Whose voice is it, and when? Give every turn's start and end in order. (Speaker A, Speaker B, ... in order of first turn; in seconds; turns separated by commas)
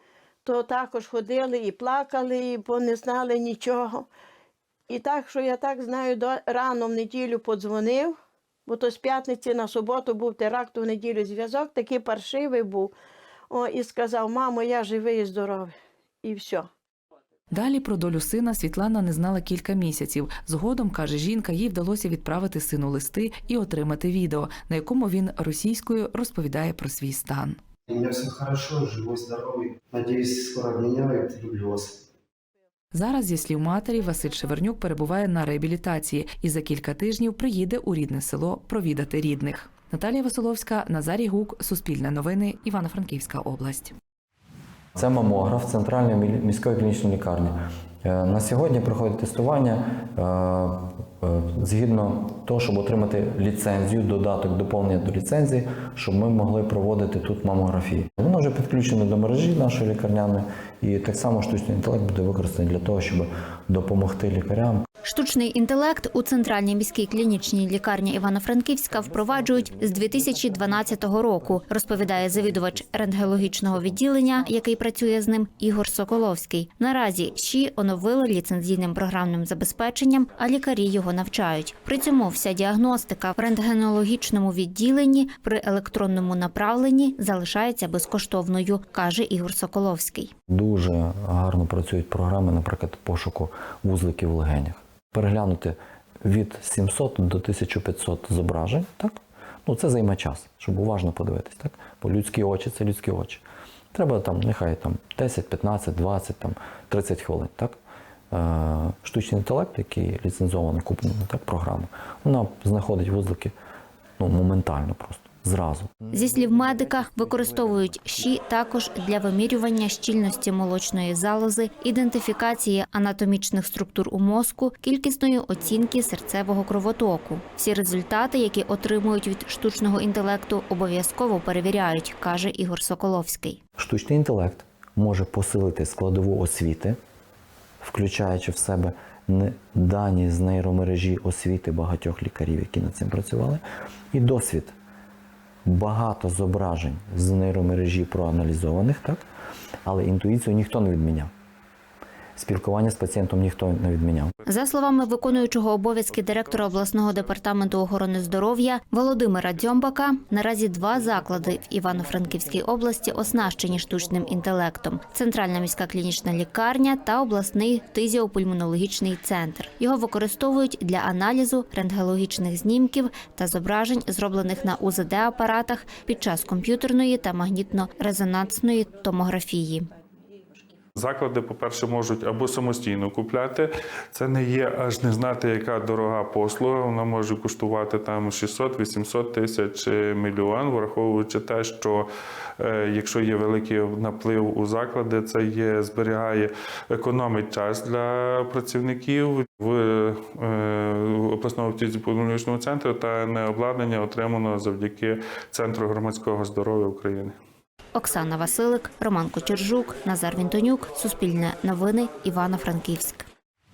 Speaker A: 0.5-4.1, Speaker A: 4.9-8.2, Speaker A: 8.7-12.9, Speaker A: 13.5-16.7, Speaker B: 17.5-27.6, Speaker C: 27.9-32.0, Speaker B: 32.9-43.9, Speaker D: 45.0-64.9, Speaker E: 65.0-90.3, Speaker D: 90.5-107.8, Speaker D: 108.3-113.5, Speaker D: 114.2-116.0, Speaker E: 116.1-133.6, Speaker D: 133.8-137.0, Speaker D: 137.8-143.6, Speaker D: 144.1-144.8, Speaker D: 145.7-149.2, Speaker D: 149.8-151.3, Speaker D: 152.4-154.3, Speaker E: 154.5-179.9, Speaker F: 181.0-192.1, Speaker F: 192.6-207.3, Speaker E: 207.9-213.3